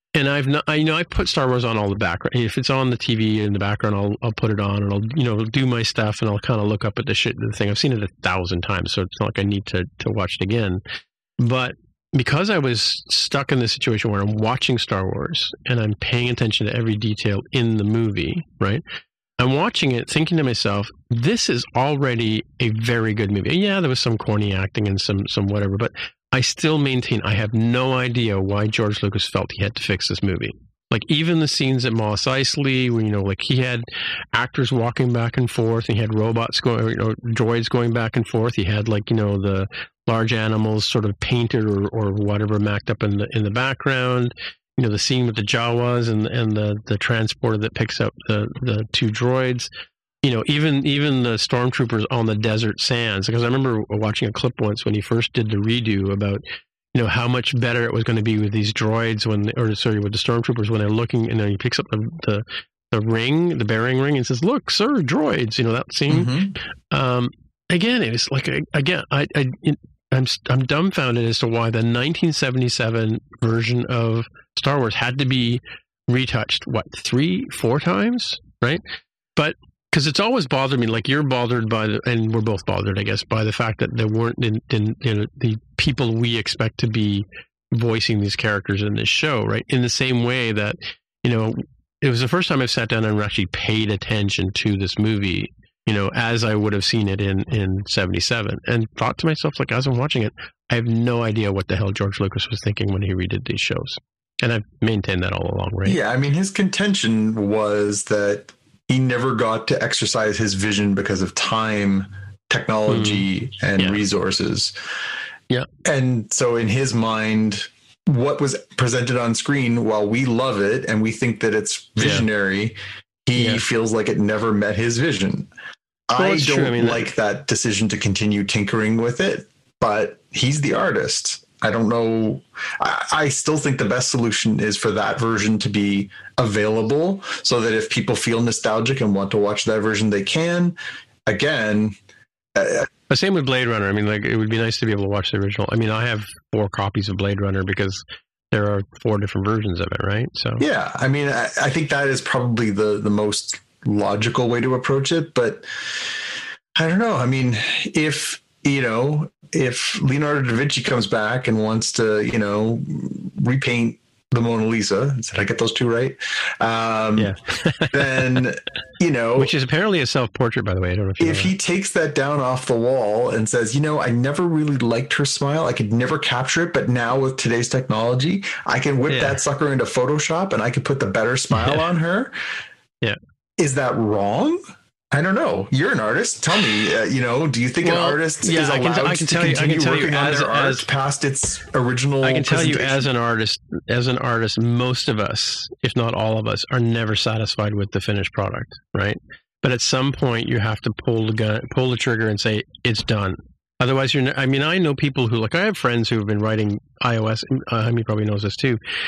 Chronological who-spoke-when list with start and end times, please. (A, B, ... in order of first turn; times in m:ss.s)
0:00.1-0:10.8 A
0:11.4-0:18.8 A
0:19.4-0:49.7 A
0:50.2-0:56.4 A
0:56.9-1:06.4 A
1:06.1-1:06.6 B
1:06.9-1:18.8 A
1:19.4-1:46.0 A
1:45.8-1:54.8 B
1:52.9-1:53.3 A
1:55.8-2:05.5 B
2:02.0-2:02.3 A
2:03.4-2:03.6 A
2:06.1-2:22.0 B
2:06.2-2:07.1 A
2:22.6-2:22.9 B
2:23.1-2:30.6 A
2:30.6-2:35.7 B
2:36.8-2:47.3 B
2:47.2-2:48.4 A
2:47.9-2:49.5 B
2:49.4-2:51.5 A
2:51.2-3:02.4 B
2:59.1-2:59.4 A
3:01.6-3:01.8 A
3:03.6-3:13.1 B
3:07.8-3:10.8 A
3:12.2-3:28.8 A